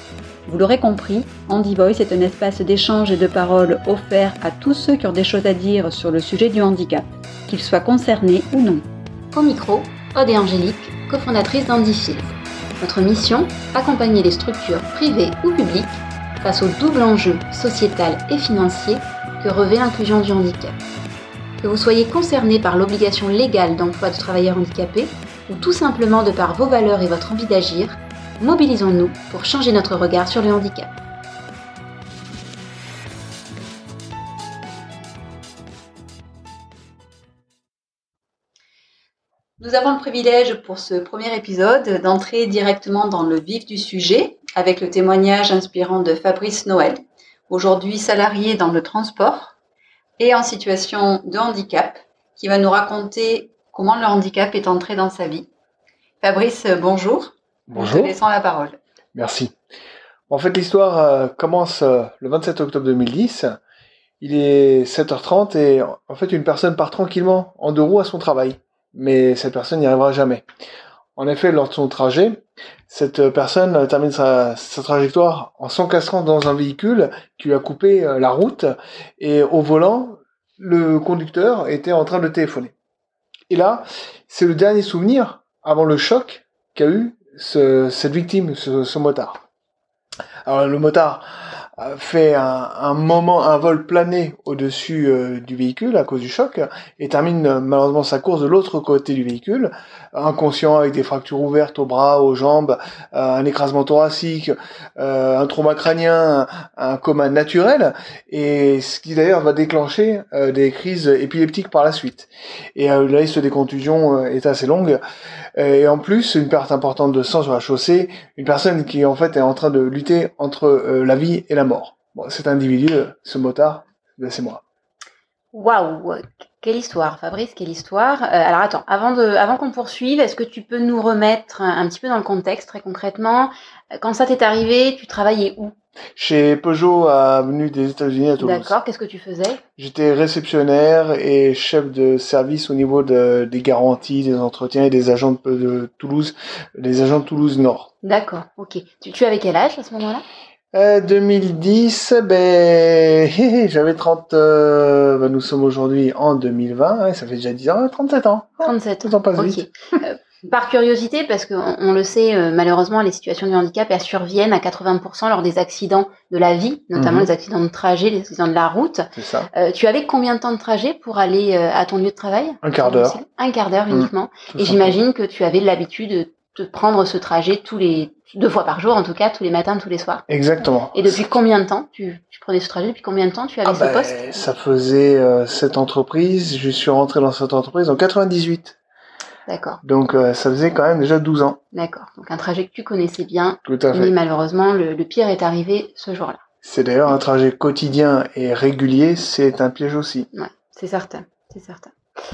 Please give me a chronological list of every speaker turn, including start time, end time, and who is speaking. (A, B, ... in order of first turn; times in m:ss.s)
0:00.5-0:08.8 A
0:09.3-0:20.8 B
0:21.6-0:30.9 B
0:39.6-0:49.6 A
0:50.2-0:55.5 A
0:56.2-0:58.8 A
0:57.7-0:58.1 C
0:59.2-0:59.6 C
1:00.3-1:03.6 C
1:04.2-1:10.5 C
1:11.2-1:22.7 C
1:23.5-1:29.4 C
1:30.5-1:55.0 C
1:55.6-2:04.6 C
2:05.5-2:15.7 B
2:16.2-2:18.8 C
2:18.4-2:19.6 B
2:19.8-2:27.9 C
2:28.0-2:30.2 B
2:30.7-2:39.6 C
2:38.6-3:00.2 B
2:47.0-2:47.3 C
2:49.2-2:49.5 C
2:52.6-2:53.2 C
2:53.9-2:55.0 C
3:00.3-3:01.2 C
3:00.9-3:04.4 B
3:03.7-3:08.8 C
3:09.5-3:09.8 B
3:09.8-3:11.6 C
3:11.7-3:16.4 B
3:13.6-3:14.1 C
3:16.6-3:20.3 C
3:20.3-3:21.9 B